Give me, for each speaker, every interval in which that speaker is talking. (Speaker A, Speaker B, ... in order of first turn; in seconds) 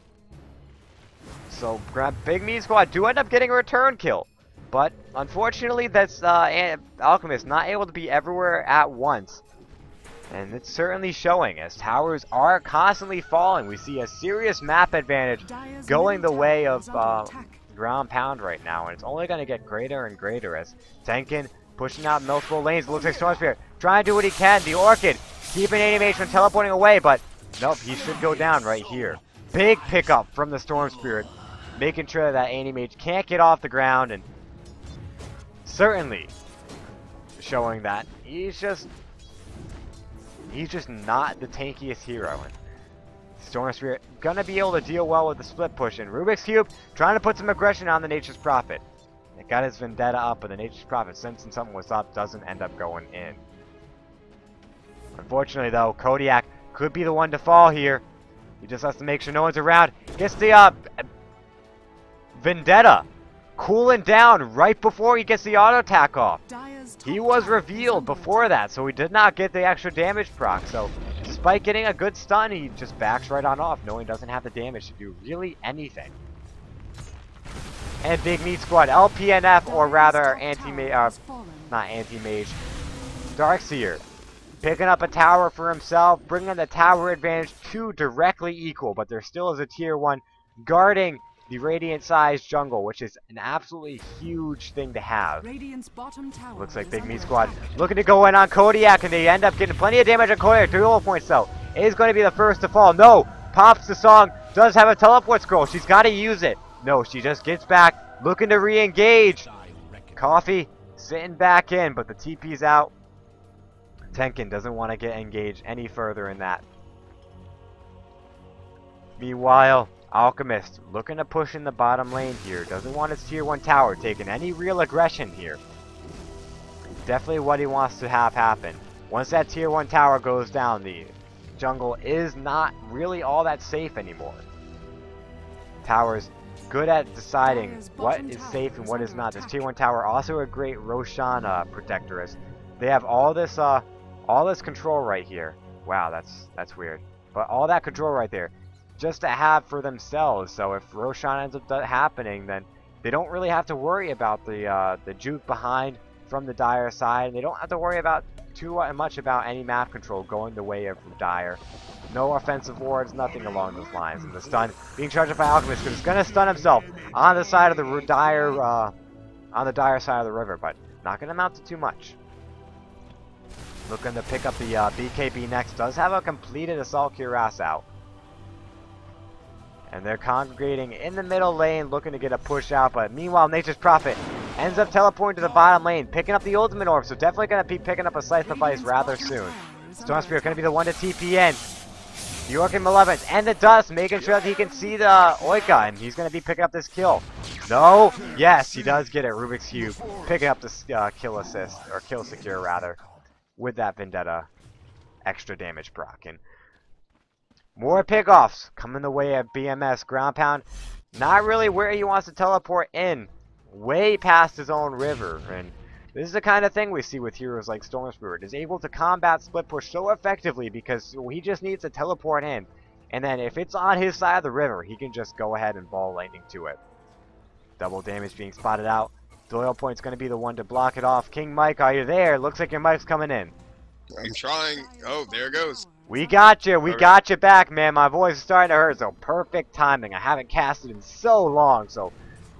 Speaker A: 1.5-9.4, 10.3-34.3, 35.6-36.3, 37.4-38.9, 40.5-42.5, 43.4-48.8, 49.4-53.4, 55.2-58.0, 58.6-61.0, 62.4-66.4, 67.0-76.2, 78.0-81.2, 81.7-82.6, 83.3-84.0, 84.6-95.5, 96.6-109.5, 110.2-112.9, 114.1-116.7, 119.2-125.6, 127.0-134.4, 135.8-168.9, 169.5-172.2, 173.9-177.8, 179.9-191.6, 192.5-203.0, 203.6-204.5, 205.3-206.4, 207.8-226.8, 227.8-233.5, 236.1-242.1
Speaker B: 15.4-17.6, 66.5-68.6, 79.7-81.8, 95.4-98.1, 137.4-139.7, 188.4-190.8, 234.4-236.6
Speaker C: 234.2-235.8, 236.8-237.2